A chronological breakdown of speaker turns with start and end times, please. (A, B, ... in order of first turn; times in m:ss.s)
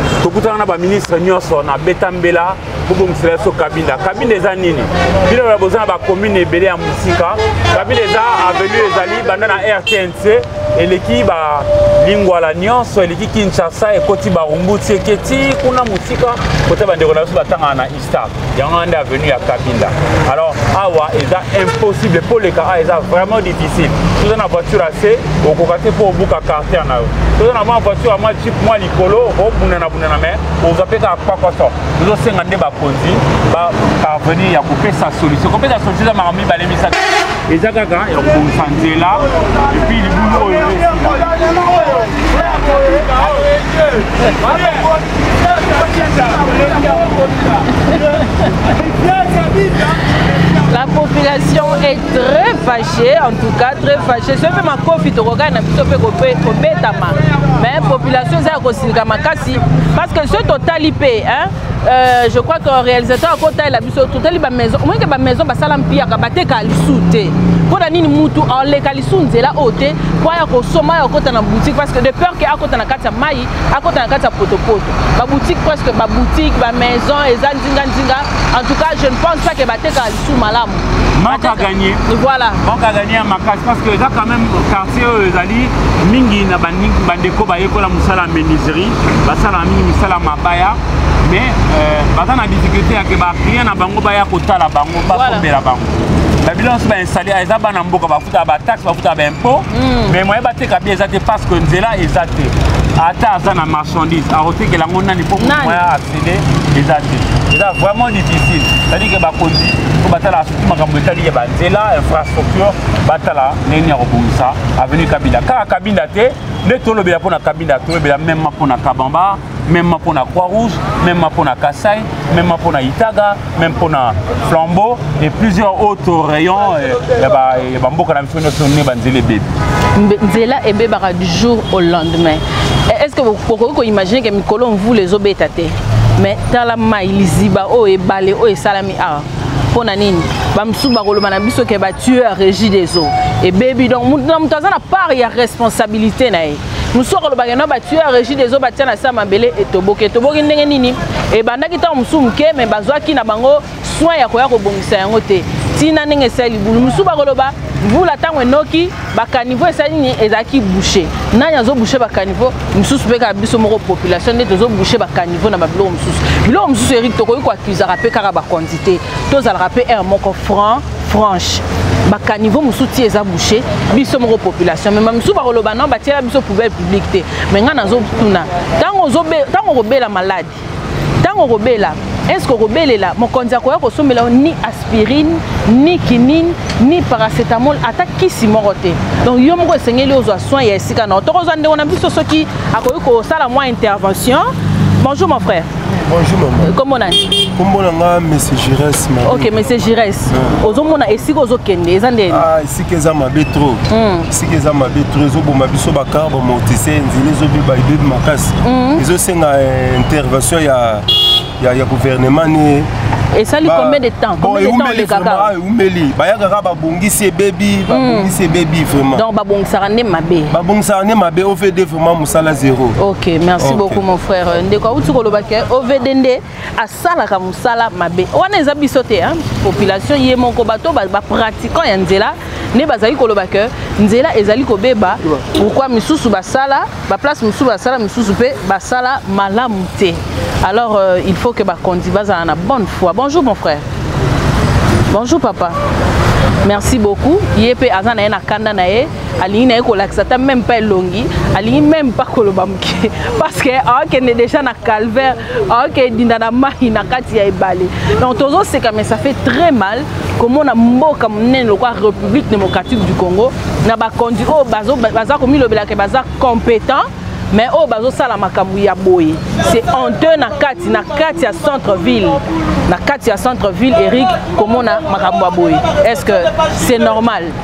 0:00.2-0:41.3 A
0:44.4-0:44.9 A
0:47.7-0:48.4 B
0:50.6-1:22.6 B
1:21.1-1:22.0 A
1:22.6-1:35.9 A
1:35.1-1:35.4 B
1:36.4-2:09.5 A
1:39.7-1:40.2 B
1:45.4-1:45.8 B
2:09.9-3:00.6 B
3:01.2-3:15.7 B
3:15.9-3:16.6 C
3:16.6-3:17.5 B
3:17.6-3:19.6 C
3:19.2-3:22.4 B
3:20.3-3:20.6 C
3:22.3-3:31.0 C
3:23.9-3:24.3 B
3:28.6-3:29.0 B
3:31.6-3:32.9 C
3:33.3-3:35.5 B
3:33.6-3:39.2 C
3:37.9-3:38.3 B
3:39.1-3:40.6 B
3:40.5-3:43.0 C
3:43.0-4:03.8 B
3:43.6-3:44.0 C
4:05.1-4:05.8 B
4:06.6-4:37.6 B